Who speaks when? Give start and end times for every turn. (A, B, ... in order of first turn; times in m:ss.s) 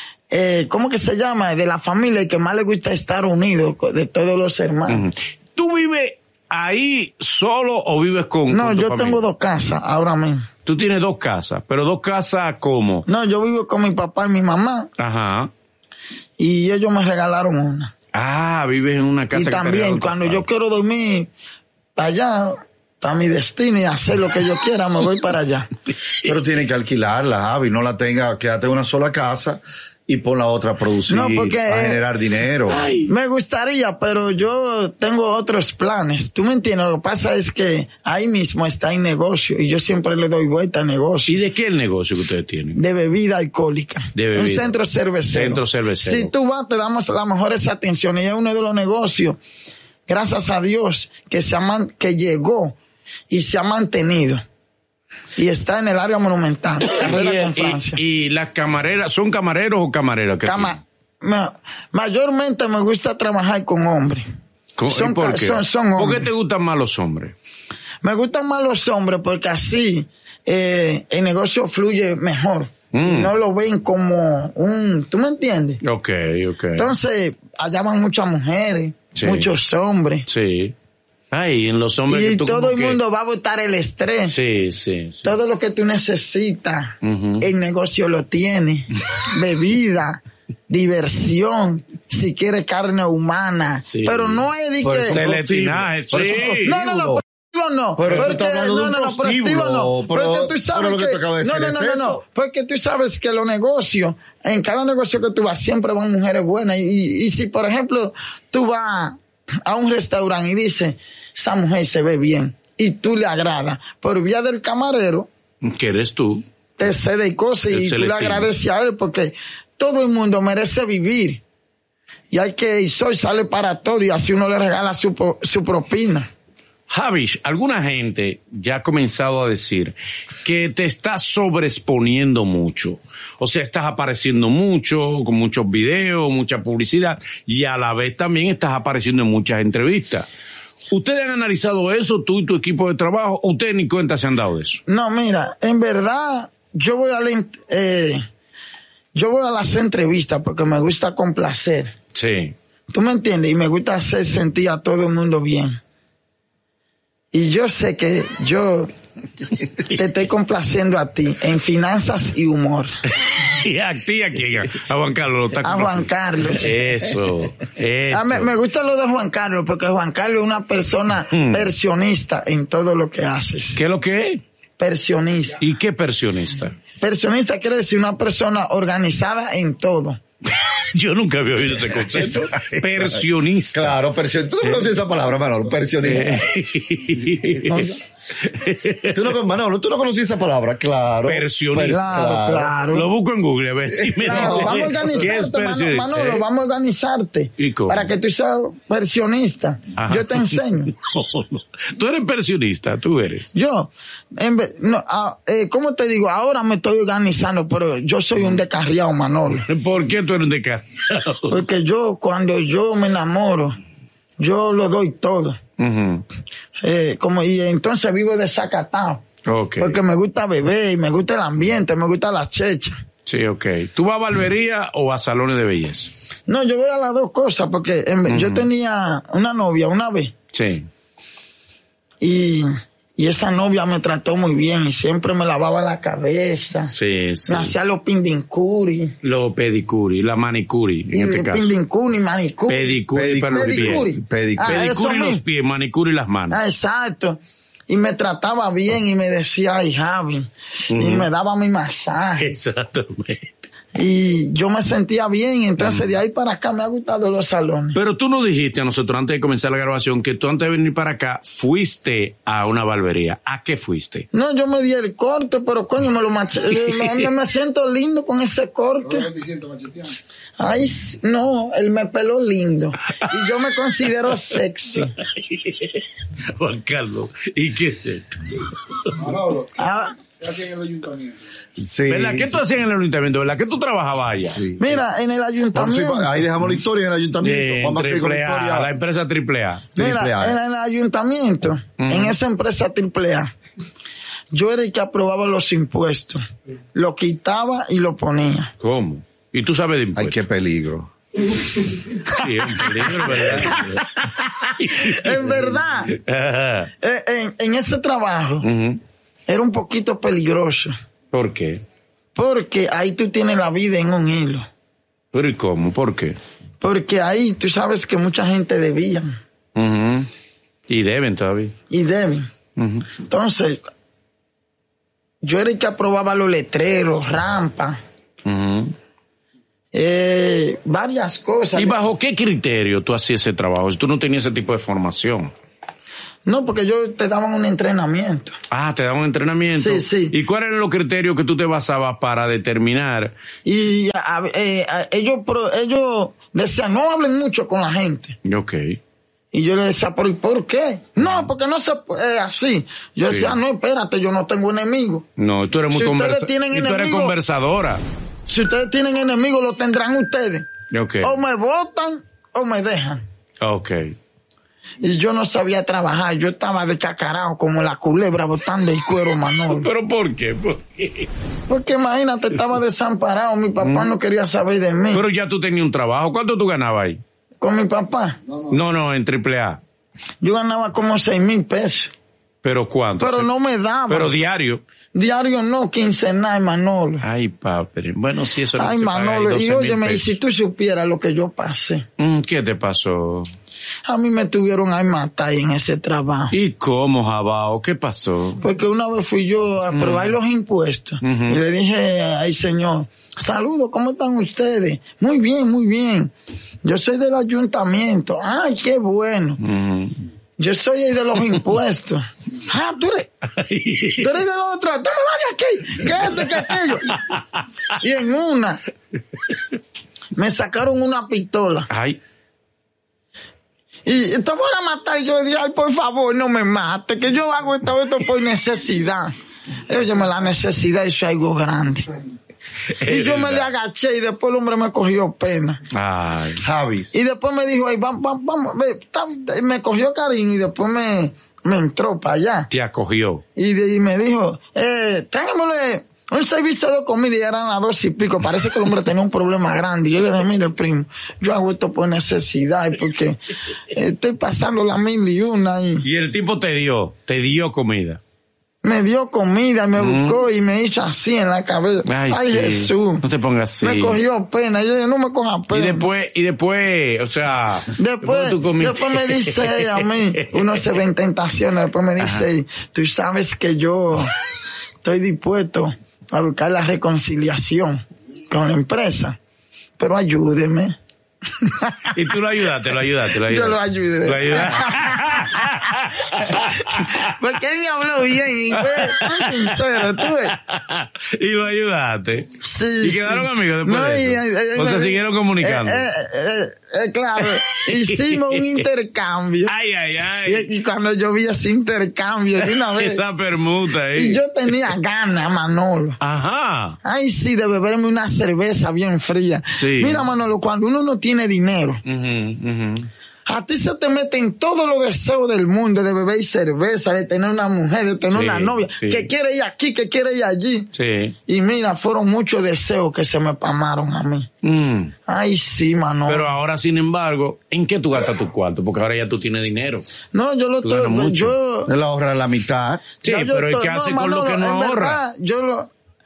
0:00.3-0:05.0 A
0:04.9-0:09.2 B
0:08.5-0:10.5 A
0:10.7-0:13.1 B
0:13.1-0:14.9 A
0:15.0-0:15.5 B
0:16.4-0:17.9 A
0:18.1-0:20.4 B
0:19.3-0:21.3 A
0:22.0-0:25.7 A
0:26.2-0:32.8 C
0:31.1-0:32.0 A
0:32.7-0:33.1 B
0:33.1-0:41.3 A
0:41.3-0:42.8 B
0:42.8-0:49.4 A
0:44.2-0:44.8 B
0:45.3-0:46.3 B
0:50.1-0:52.8 A
0:53.3-0:54.4 A
0:55.4-0:58.0 A
0:56.8-1:00.8 B
1:00.4-1:04.3 A
1:04.8-1:07.4 B
1:04.9-1:06.3 A
1:08.0-1:15.8 A
1:12.9-1:13.3 B
1:15.8-1:16.9 B
1:16.8-1:20.3 A
1:19.2-1:19.5 B
1:20.3-1:20.8 B
1:21.3-1:23.0 B
1:22.1-1:24.3 A
1:24.3-1:25.4 B
1:25.2-1:35.2 A
1:27.0-1:27.5 B
1:33.9-1:34.4 B
1:34.8-1:37.2 C
1:35.1-1:36.9 B
1:36.6-1:55.3 A
1:38.0-1:42.2 C
1:38.0-1:38.3 B
1:55.6-1:56.4 B
1:56.8-2:01.4 A
1:57.7-1:58.5 B
2:02.3-2:06.3 A
2:06.9-2:20.3 B
2:20.9-2:24.8 B
2:24.9-2:28.2 A
2:29.2-2:31.9 A
2:32.1-2:32.6 B
2:32.9-2:35.8 A
2:37.3-2:38.9 A
2:39.8-2:42.9 A
2:43.3-2:48.5 B
2:45.6-2:46.7 A
2:48.1-2:53.8 A
2:51.3-2:51.7 B
2:53.8-2:54.4 B
2:54.8-2:55.6 A
2:55.6-2:56.8 B
2:57.0-3:00.2 A
3:00.5-3:04.0 B
3:01.9-3:06.5 C
3:06.0-3:09.2 B
3:07.6-3:08.0 A
3:09.1-3:12.8 C
3:11.2-3:12.2 B
3:11.9-3:13.1 A
3:12.9-3:16.4 B
3:14.0-3:14.8 C
3:14.2-3:20.9 A
3:17.6-3:18.1 B
3:20.0-3:23.5 B
3:23.5-3:29.6 A
3:29.5-3:31.6 B
3:31.5-3:33.8 A
3:34.4-3:35.6 A
3:35.8-3:36.2 B
3:36.8-3:39.2 A
3:39.5-3:40.0 B
3:39.8-3:43.0 A
3:43.3-3:46.1 B
3:46.5-3:50.3 A
3:48.3-3:48.7 B
3:50.5-3:50.9 B
3:52.2-3:56.9 A
3:56.9-3:57.7 B
3:57.5-3:59.1 A
3:59.2-4:01.7 B
4:01.1-4:02.9 A
4:02.7-4:04.1 B
4:03.1-4:04.9 C
4:03.5-4:05.4 A
4:04.6-4:06.6 B
4:06.5-4:12.5 A
4:10.9-4:11.3 B
4:12.4-4:13.5 B
4:14.0-4:18.0 A
4:15.8-4:16.1 B
4:18.0-4:24.3 B
4:24.3-4:29.3 A
4:26.7-4:27.3 B
4:29.1-4:30.1 D
4:30.6-4:35.1 A
4:34.3-4:39.0 B
4:39.2-4:39.8 D
4:39.8-4:40.1 A
4:40.3-4:41.4 D
4:41.8-4:42.6 C
4:42.1-4:44.6 B
4:44.4-4:45.0 C
4:44.8-4:46.4 A
4:45.7-4:48.9 C
4:47.4-4:49.9 B
4:50.0-4:50.6 C
4:50.0-4:53.5 A
4:52.0-4:52.4 B
4:54.5-4:56.4 A
4:56.9-4:58.7 A
4:58.8-5:00.4 B
5:00.2-5:01.1 C
5:02.2-5:02.5 A
5:02.3-5:06.9 B
5:03.2-5:04.1 A
5:04.7-5:06.2 A
5:07.0-5:08.7 A
5:08.6-5:09.0 B
5:09.5-5:11.0 A
5:11.3-5:11.8 B
5:12.4-5:14.7 A
5:15.3-5:16.4 B
5:16.8-5:19.4 A
5:19.8-5:20.3 B
5:20.9-5:21.7 B
5:21.9-5:22.5 A
5:22.8-5:23.1 B
5:23.2-5:23.8 A
5:25.4-5:28.0 A
5:28.5-5:28.9 B
5:29.9-5:32.0 A
5:31.8-5:35.5 B
5:36.5-5:38.6 A
5:38.7-5:43.3 B
5:39.8-5:40.4 A
5:43.6-5:48.4 A
5:48.4-5:49.0 B
5:49.5-5:55.3 A
5:51.2-5:51.5 B
5:53.2-5:53.6 B
5:55.4-5:58.0 B
5:55.9-5:57.4 A
5:58.5-6:00.7 A
6:00.9-6:01.4 B
6:01.2-6:03.2 A
6:03.6-6:04.1 B
6:05.0-6:09.9 A
6:09.6-6:11.3 B
6:11.7-6:15.2 A
6:13.8-6:14.1 B
6:15.1-6:17.2 B
6:17.6-6:18.4 A
6:18.7-6:19.8 B
6:20.4-6:22.1 A
6:22.6-6:23.5 B
6:23.2-6:24.3 A
6:24.1-6:24.8 B
6:25.1-6:27.2 A
6:27.2-6:30.4 B
6:28.8-6:32.1 A
6:32.2-6:33.5 B
6:34.1-6:36.6 A
6:36.5-6:38.6 B
6:38.6-6:46.3 A
6:39.9-6:40.3 B
6:41.2-6:41.6 B
6:46.8-6:49.6 A
6:49.6-6:50.2 B
6:50.6-6:53.3 A
6:53.5-6:54.3 B
6:54.2-6:57.2 A
6:56.2-6:57.6 B
6:58.0-6:58.8 A
7:00.4-7:01.9 A
7:01.9-7:02.2 B
7:04.1-7:09.3 A
7:09.9-7:12.1 A
7:13.0-7:13.7 B
7:13.0-7:15.8 A
7:15.9-7:16.6 B
7:16.6-7:17.1 C
7:17.1-7:22.7 A
7:22.7-7:23.4 B
7:23.6-7:33.4 A
7:33.9-7:36.0 A
7:36.0-7:38.2 B
7:38.8-7:43.2 A
7:40.0-7:40.4 B
7:42.1-7:44.2 B
7:43.8-7:46.1 A
7:45.7-7:50.8 B
7:48.0-7:54.3 A
7:52.2-7:52.5 B
7:55.0-7:59.4 A
8:00.0-8:01.0 A
8:01.6-8:02.2 A
8:02.2-8:07.3 B
8:03.4-8:10.6 A
8:08.7-8:12.5 B
8:12.6-8:19.7 A
8:13.0-8:16.1 B
8:17.4-8:18.8 B
8:19.7-8:20.7 B
8:20.5-8:23.2 A
8:22.6-8:24.9 B
8:24.1-8:26.2 A
8:26.2-8:27.0 B
8:27.0-8:32.0 A
8:29.8-8:30.3 B
8:32.1-8:33.1 B
8:33.5-8:40.9 A
8:38.3-8:39.3 B
8:40.9-8:41.4 B
8:41.5-8:44.5 A
8:44.6-8:45.1 B
8:45.3-8:46.5 A
8:46.3-8:50.1 B
8:50.3-8:51.9 A
8:50.8-8:51.6 B
8:51.9-8:53.1 C
8:53.2-8:55.9 A
8:53.2-8:55.2 B